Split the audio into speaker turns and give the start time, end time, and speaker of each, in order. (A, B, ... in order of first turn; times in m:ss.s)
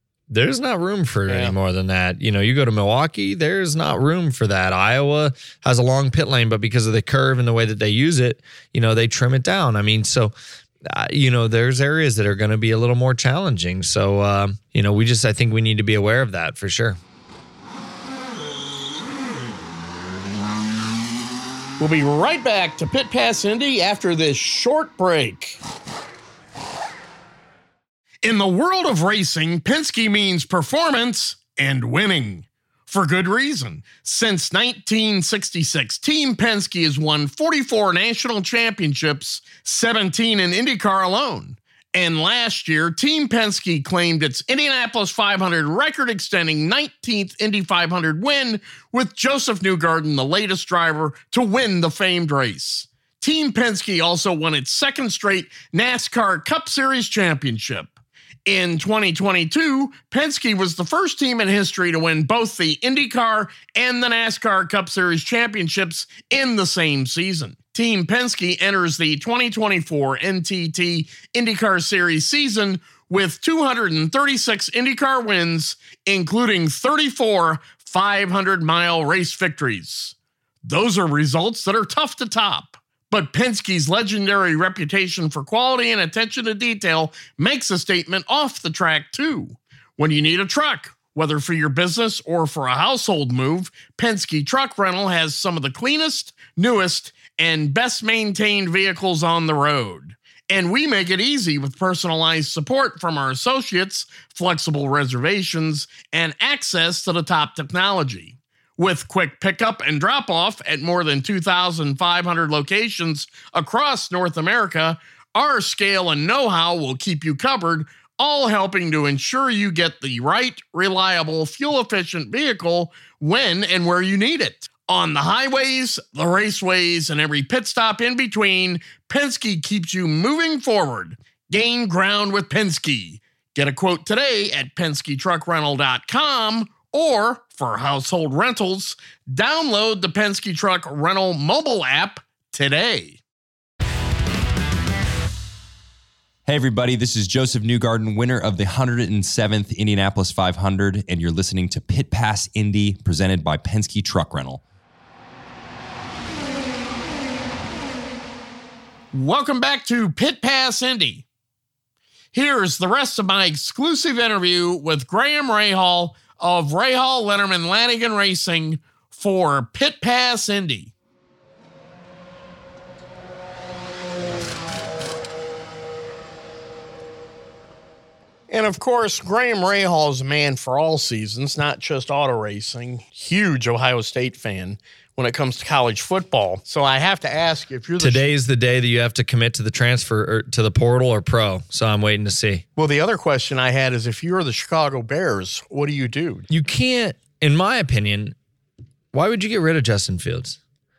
0:00.3-0:10.3 A
0:01.3-0:01.6 B
0:10.9-0:17.0 A
0:21.8-0:25.6 B
0:28.2-0:57.9 B
0:58.5-2:23.2 B
2:26.5-2:34.6 C
2:39.1-2:41.3 B
2:42.3-2:50.9 B
2:58.5-3:08.3 B
3:08.0-3:12.6 A
3:12.8-3:16.4 B
3:16.5-3:18.4 A
3:19.1-3:20.6 A